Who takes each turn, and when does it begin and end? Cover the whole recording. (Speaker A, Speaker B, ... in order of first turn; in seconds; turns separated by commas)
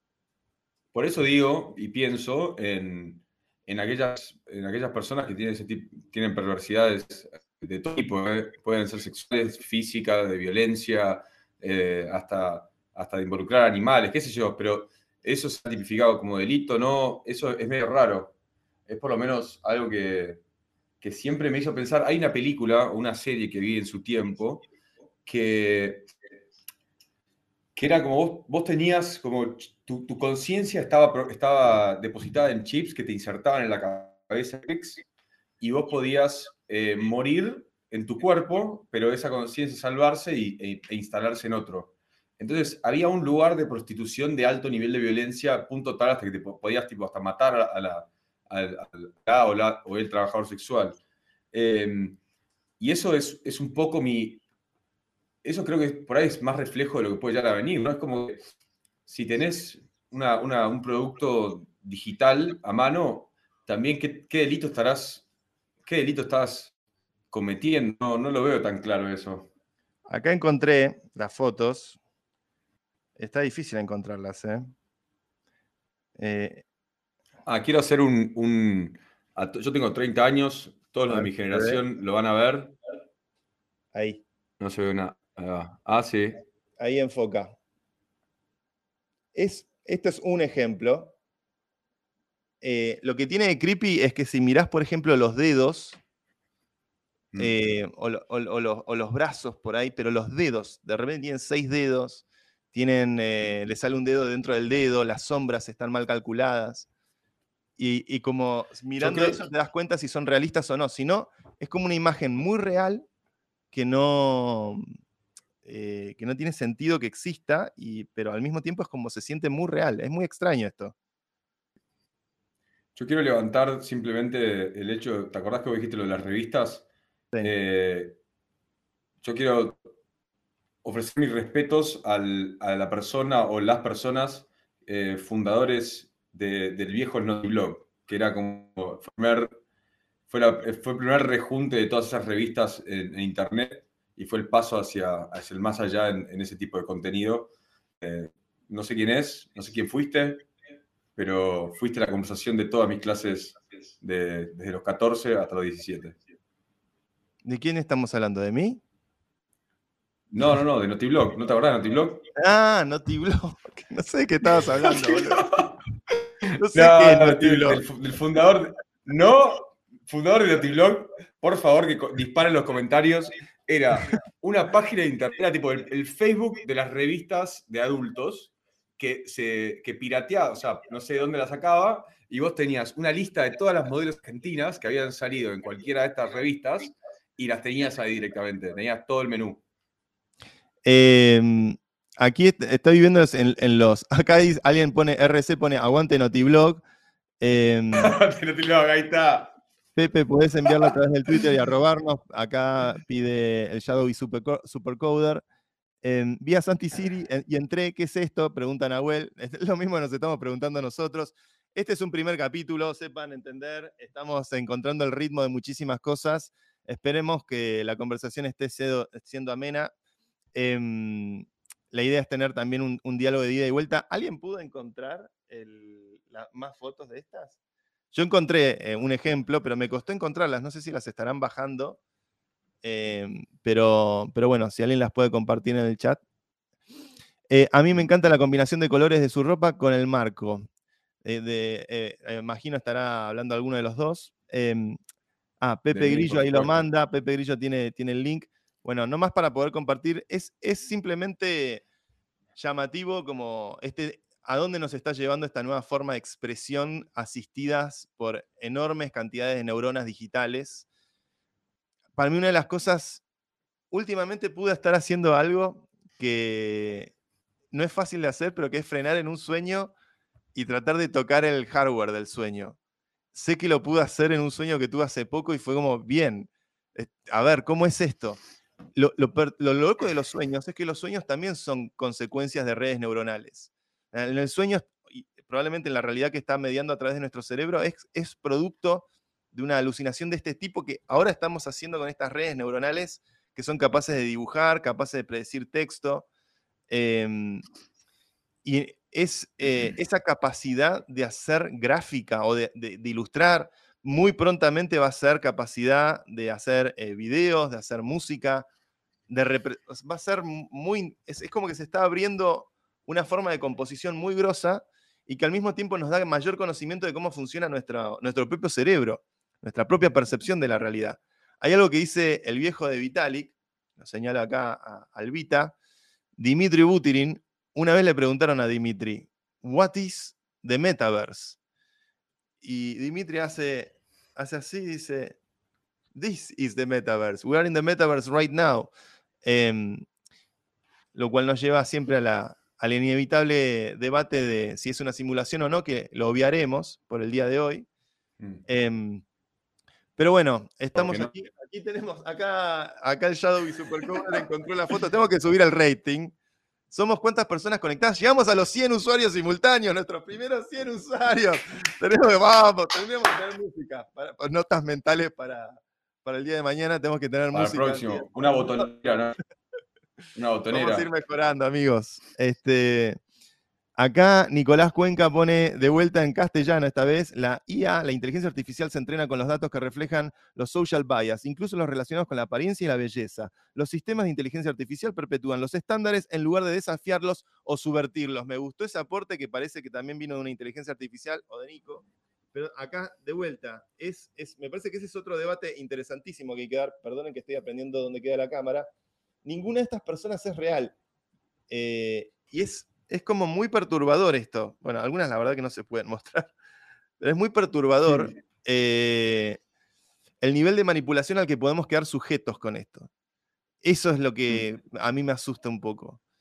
Speaker A: 0.9-18.3, Speaker A: 18.9-20.4, Speaker A: 21.0-24.6, Speaker A: 25.2-26.1, Speaker A: 27.8-35.0, Speaker A: 35.6-51.0, Speaker A: 51.5-52.2, Speaker A: 52.8-54.4, Speaker A: 55.4-58.4, Speaker A: 59.1-65.2, Speaker A: 65.8-66.7, Speaker A: 67.3-69.5, Speaker B: 70.1-72.0, Speaker B: 73.2-74.7, Speaker B: 76.2-76.6, Speaker A: 77.5-82.8, Speaker B: 81.1-81.8, Speaker B: 83.9-84.2, Speaker A: 84.6-86.4, Speaker B: 86.8-87.6, Speaker B: 89.3-91.1, Speaker B: 92.6-96.0, Speaker A: 97.3-97.7, Speaker B: 97.4-106.9, Speaker B: 107.8-113.1, Speaker A: 109.0-109.4, Speaker B: 113.7-114.9, Speaker B: 115.6-121.0, Speaker A: 123.0-126.8, Speaker A: 127.4-128.2, Speaker A: 129.2-129.8, Speaker A: 130.8-139.6, Speaker A: 140.3-150.4, Speaker A: 151.2-156.2, Speaker B: 157.4-158.8, Speaker A: 160.3-162.2, Speaker B: 162.4-165.5, Speaker A: 164.9-165.7, Speaker B: 166.6-167.8, Speaker A: 166.7-189.6, Speaker B: 190.8-196.8, Speaker B: 197.4-198.1, Speaker A: 198.0-199.5, Speaker B: 200.0-205.4, Speaker B: 206.0-219.9, Speaker B: 220.5-227.6, Speaker B: 228.1-232.0, Speaker B: 232.8-236.2, Speaker B: 237.5-240.7, Speaker B: 241.2-245.0, Speaker B: 245.6-251.8, Speaker A: 245.9-246.8, Speaker B: 252.6-260.9, Speaker B: 262.2-263.2, Speaker B: 263.9-267.1, Speaker B: 267.7-269.9, Speaker B: 270.6-272.8, Speaker B: 273.3-278.4, Speaker B: 279.0-296.3, Speaker B: 296.9-297.6, Speaker B: 298.6-308.7, Speaker B: 309.3-325.8, Speaker B: 326.4-331.6, Speaker B: 332.6-335.4, Speaker B: 336.1-338.9, Speaker B: 339.4-340.1, Speaker B: 341.1-347.9, Speaker B: 348.7-349.2, Speaker B: 350.2-356.3, Speaker A: 350.9-351.3, Speaker B: 356.9-368.9, Speaker A: 367.5-369.4, Speaker A: 370.4-371.1, Speaker B: 370.7-373.2, Speaker B: 374.0-398.9, Speaker B: 399.4-400.9, Speaker B: 401.7-406.5, Speaker B: 407.2-409.6, Speaker A: 408.1-408.3, Speaker B: 410.4-413.1, Speaker B: 413.8-416.2